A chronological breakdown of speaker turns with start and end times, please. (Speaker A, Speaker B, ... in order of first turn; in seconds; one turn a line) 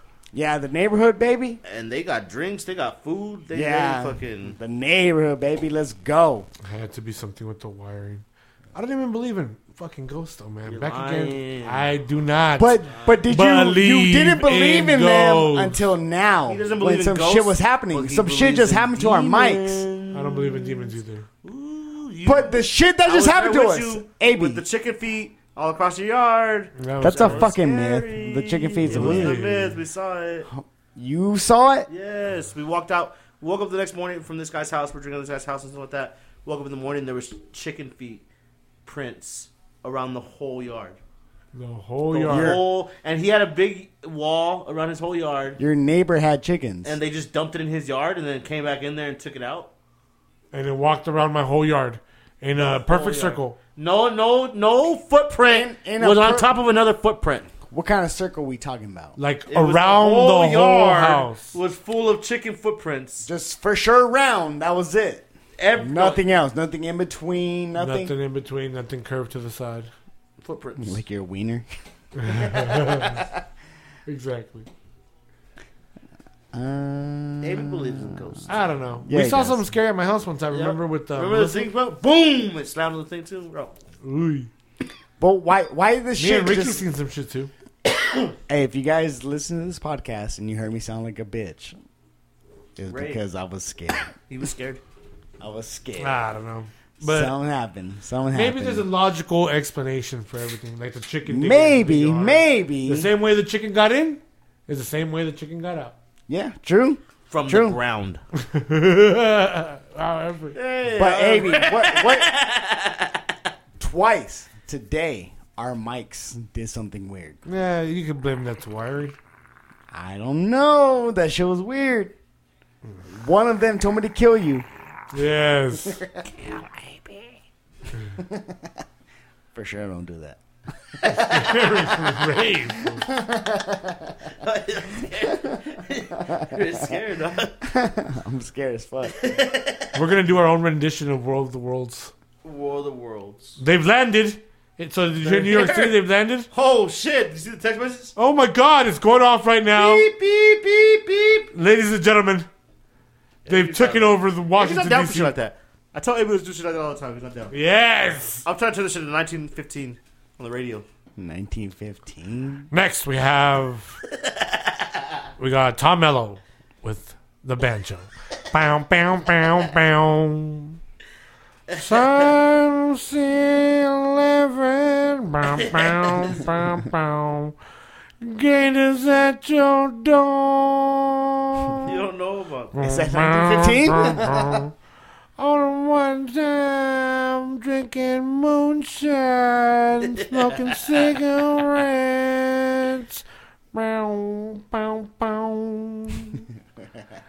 Speaker A: 0.3-1.6
Speaker B: 1.6-4.6
Speaker A: 3.5-6.5
Speaker C: 6.6-15.8
Speaker B: 10.7-11.9
Speaker A: 12.6-19.9
Speaker B: 12.9-13.2
Speaker B: 16.5-30.5
Speaker C: 20.1-21.3
Speaker A: 22.2-24.6
Speaker C: 26.8-27.5
Speaker A: 27.0-29.4
Speaker C: 28.8-29.8
Speaker A: 30.5-31.9
Speaker B: 31.9-38.2
Speaker B: 38.8-41.0
Speaker C: 41.5-42.6
Speaker A: 42.1-42.7
Speaker B: 42.2-45.6
Speaker A: 45.6-46.9
Speaker B: 46.8-49.7
Speaker C: 50.5-53.6
Speaker B: 52.6-57.5
Speaker A: 55.5-56.5
Speaker A: 57.7-59.2
Speaker C: 59.2-61.6
Speaker B: 59.5-63.3
Speaker A: 63.2-68.1
Speaker B: 65.6-66.2
Speaker C: 67.8-69.9
Speaker B: 70.4-71.0
Speaker A: 70.8-71.7
Speaker C: 72.2-73.2
Speaker B: 72.7-73.0
Speaker C: 74.0-74.7
Speaker A: 76.5-78.5
Speaker B: 77.4-78.6
Speaker C: 78.5-81.7
Speaker A: 79.0-79.7
Speaker B: 80.5-83.8
Speaker C: 84.0-84.5
Speaker A: 85.2-86.8
Speaker C: 86.2-87.5
Speaker A: 88.5-91.8
Speaker A: 92.8-94.1
Speaker B: 92.9-93.2
Speaker B: 94.3-94.8
Speaker A: 95.4-96.2
Speaker C: 96.0-97.3
Speaker A: 97.0-98.9
Speaker C: 98.3-106.0
Speaker A: 101.2-103.1
Speaker A: 106.3-107.8
Speaker B: 107.3-108.2
Speaker C: 108.3-110.5
Speaker B: 110.5-113.2
Speaker A: 111.0-112.3
Speaker A: 113.8-117.4
Speaker C: 117.5-119.2
Speaker A: 119.9-122.1
Speaker A: 123.0-124.7
Speaker C: 125.1-126.1
Speaker A: 128.2-128.8
Speaker A: 129.5-130.4
Speaker B: 131.0-131.7
Speaker C: 131.1-133.1
Speaker A: 132.9-134.2
Speaker B: 134.4-137.6
Speaker A: 137.6-139.2
Speaker B: 139.1-139.9
Speaker C: 139.9-142.1
Speaker B: 142.4-143.6
Speaker C: 143.6-146.5
Speaker B: 145.2-146.0
Speaker B: 146.5-148.1
Speaker C: 148.2-150.1
Speaker B: 149.7-151.5
Speaker C: 151.5-152.5
Speaker B: 153.4-157.5
Speaker C: 153.5-155.3
Speaker C: 157.5-158.4
Speaker B: 158.4-160.8
Speaker A: 161.2-162.7
Speaker C: 162.7-164.0
Speaker B: 164.3-164.9
Speaker C: 165.4-170.8
Speaker B: 171.7-172.0
Speaker C: 171.7-177.5
Speaker B: 175.6-176.3
Speaker C: 178.2-181.9
Speaker B: 181.8-182.7
Speaker C: 182.7-184.7
Speaker A: 182.8-184.6
Speaker C: 185.4-196.4
Speaker B: 190.1-191.0